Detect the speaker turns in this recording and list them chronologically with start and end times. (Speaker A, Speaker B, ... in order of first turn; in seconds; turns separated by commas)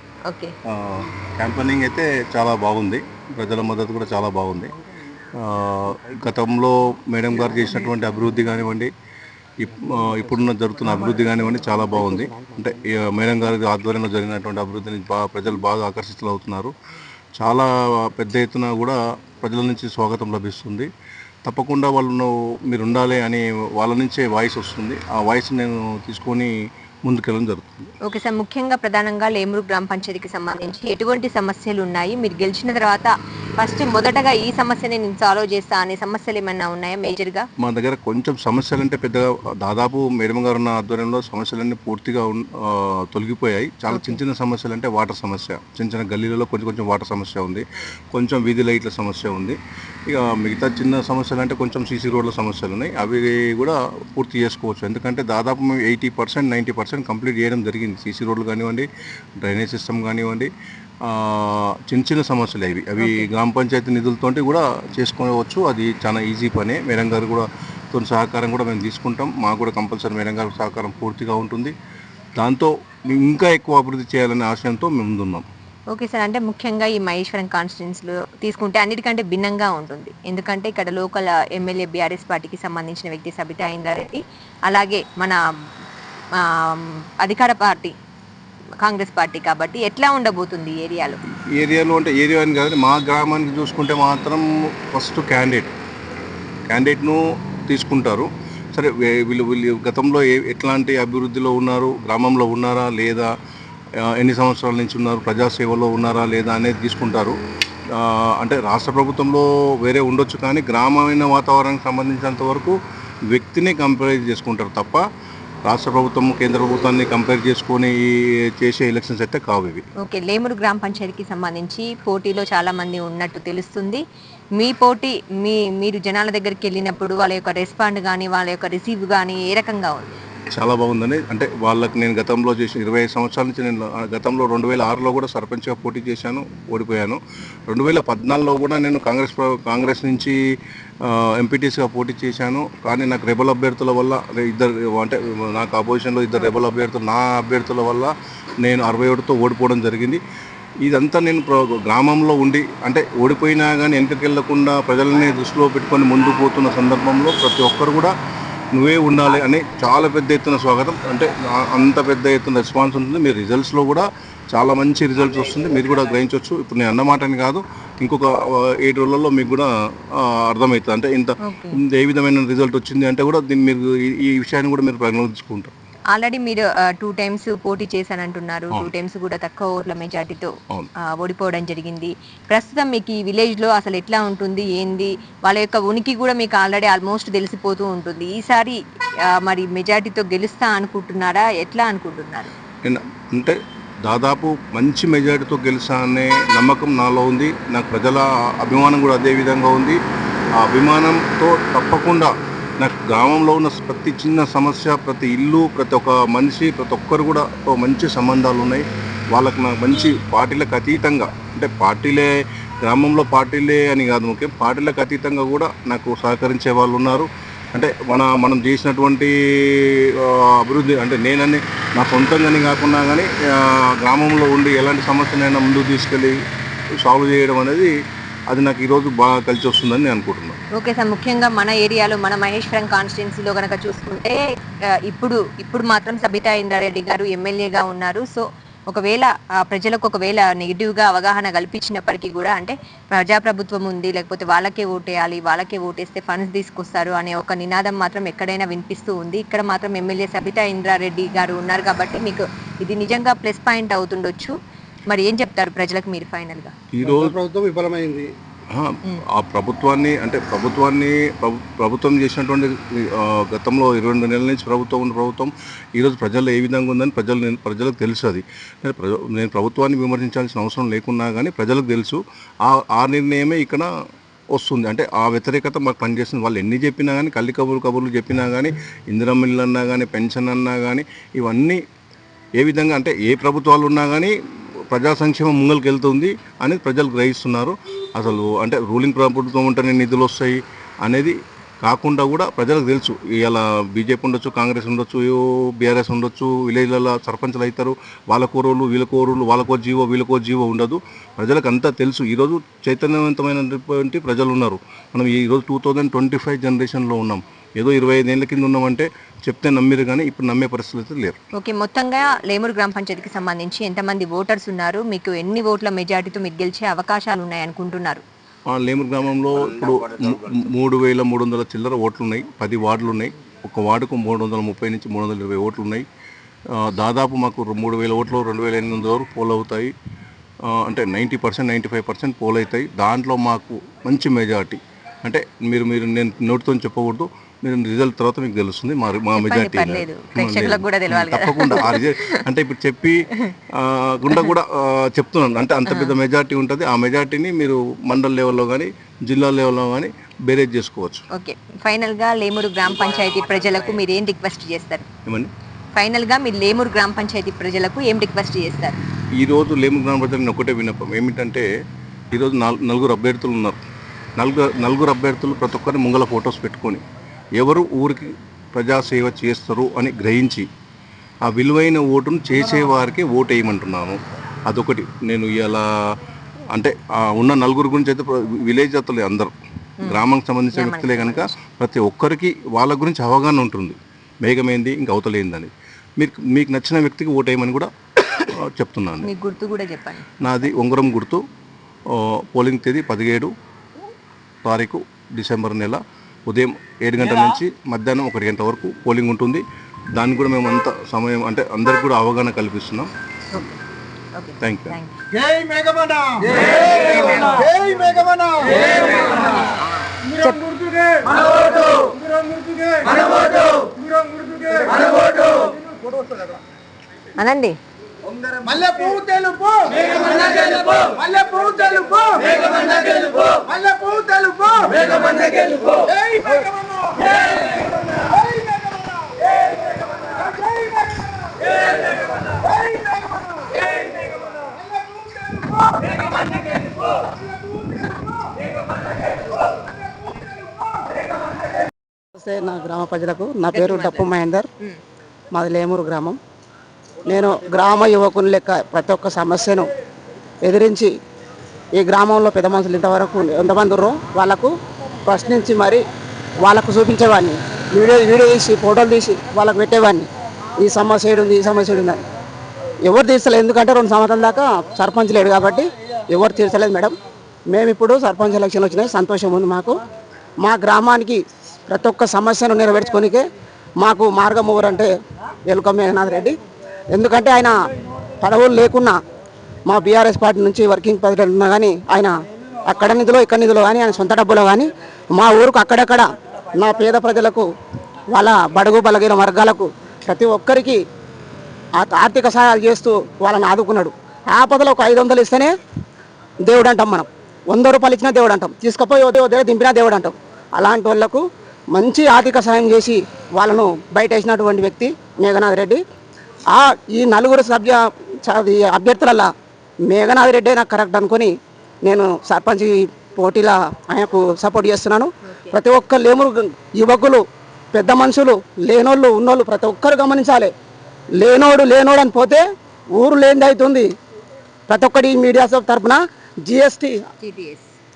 Speaker A: 0.7-4.7, Speaker A: 5.4-8.9, Speaker A: 9.6-16.7, Speaker A: 17.4-20.9, Speaker A: 21.5-26.5, Speaker A: 27.1-27.9, Speaker B: 28.1-37.4, Speaker A: 37.6-49.6, Speaker B: 43.9-44.2, Speaker A: 50.1-58.9, Speaker A: 59.4-60.5, Speaker A: 61.1-71.7, Speaker A: 72.4-75.4, Speaker B: 75.9-85.4, Speaker B: 86.4-87.9, Speaker B: 88.8-91.2, Speaker A: 91.5-95.7, Speaker A: 96.7-103.3, Speaker A: 104.1-107.3, Speaker A: 108.0-112.8, Speaker A: 113.3-115.0, Speaker A: 115.7-117.9, Speaker A: 118.6-119.8, Speaker B: 120.0-124.0, Speaker B: 124.6-130.1, Speaker A: 130.5-140.3, Speaker A: 141.0-148.1, Speaker A: 148.6-150.2, Speaker A: 150.8-158.1, Speaker A: 158.7-168.3, Speaker A: 168.8-169.7, Speaker A: 170.5-171.3, Speaker B: 171.4-171.8, Speaker A: 171.9-175.7, Speaker B: 176.1-180.5, Speaker B: 181.2-188.8, Speaker B: 189.4-192.5, Speaker A: 192.8-200.0, Speaker A: 200.6-212.3, Speaker A: 212.9-226.3, Speaker A: 227.0-227.9, Speaker A: 228.5-230.6, Speaker B: 230.8-234.4, Speaker B: 235.1-254.5, Speaker B: 255.1-256.7, Speaker A: 256.9-257.4, Speaker C: 257.0-258.3, Speaker A: 258.7-273.9, Speaker A: 274.5-281.8, Speaker A: 282.6-284.3, Speaker A: 284.9-311.4, Speaker B: 311.6-318.2, Speaker A: 318.7-326.0, Speaker A: 326.8-329.9, Speaker A: 330.8-343.2, Speaker B: 339.4-342.2, Speaker A: 343.8-351.2, Speaker B: 345.9-346.1, Speaker B: 351.4-355.0, Speaker B: 355.9-359.0, Speaker A: 359.4-361.6, Speaker A: 362.3-363.8, Speaker A: 364.4-367.0, Speaker A: 367.6-370.6, Speaker A: 371.5-375.8, Speaker A: 376.7-379.5, Speaker B: 380.0-381.5, Speaker A: 380.1-387.9, Speaker A: 388.6-389.3, Speaker B: 389.2-390.2, Speaker A: 390.4-391.4, Speaker A: 392.5-393.5, Speaker A: 394.6-399.6, Speaker A: 400.1-403.1, Speaker B: 403.5-403.8, Speaker B: 404.4-405.1, Speaker A: 404.6-404.9, Speaker C: 407.6-408.6, Speaker B: 410.3-410.6, Speaker B: 417.4-417.7, Speaker C: 421.2-422.4, Speaker C: 423.7-425.0, Speaker D: 442.3-444.7, Speaker B: 443.7-444.3, Speaker D: 445.5-446.4, Speaker D: 447.3-449.9, Speaker D: 450.6-451.1, Speaker D: 451.9-454.7, Speaker D: 455.2-456.0, Speaker D: 456.6-460.3, Speaker D: 460.8-462.2, Speaker D: 463.0-467.1, Speaker D: 467.7-470.0, Speaker D: 470.6-473.4, Speaker D: 474.0-475.1, Speaker D: 475.7-476.6, Speaker D: 477.1-477.7, Speaker D: 478.4-479.2, Speaker D: 479.9-482.3, Speaker D: 482.9-487.6, Speaker D: 488.3-491.0, Speaker D: 492.0-495.7, Speaker D: 496.6-501.4, Speaker D: 501.9-506.0, Speaker D: 506.7-509.5, Speaker D: 510.1-511.5, Speaker D: 512.0-517.4, Speaker D: 517.9-520.7, Speaker D: 521.4-522.6, Speaker D: 523.2-524.1, Speaker D: 524.9-527.2, Speaker B: 527.4-527.9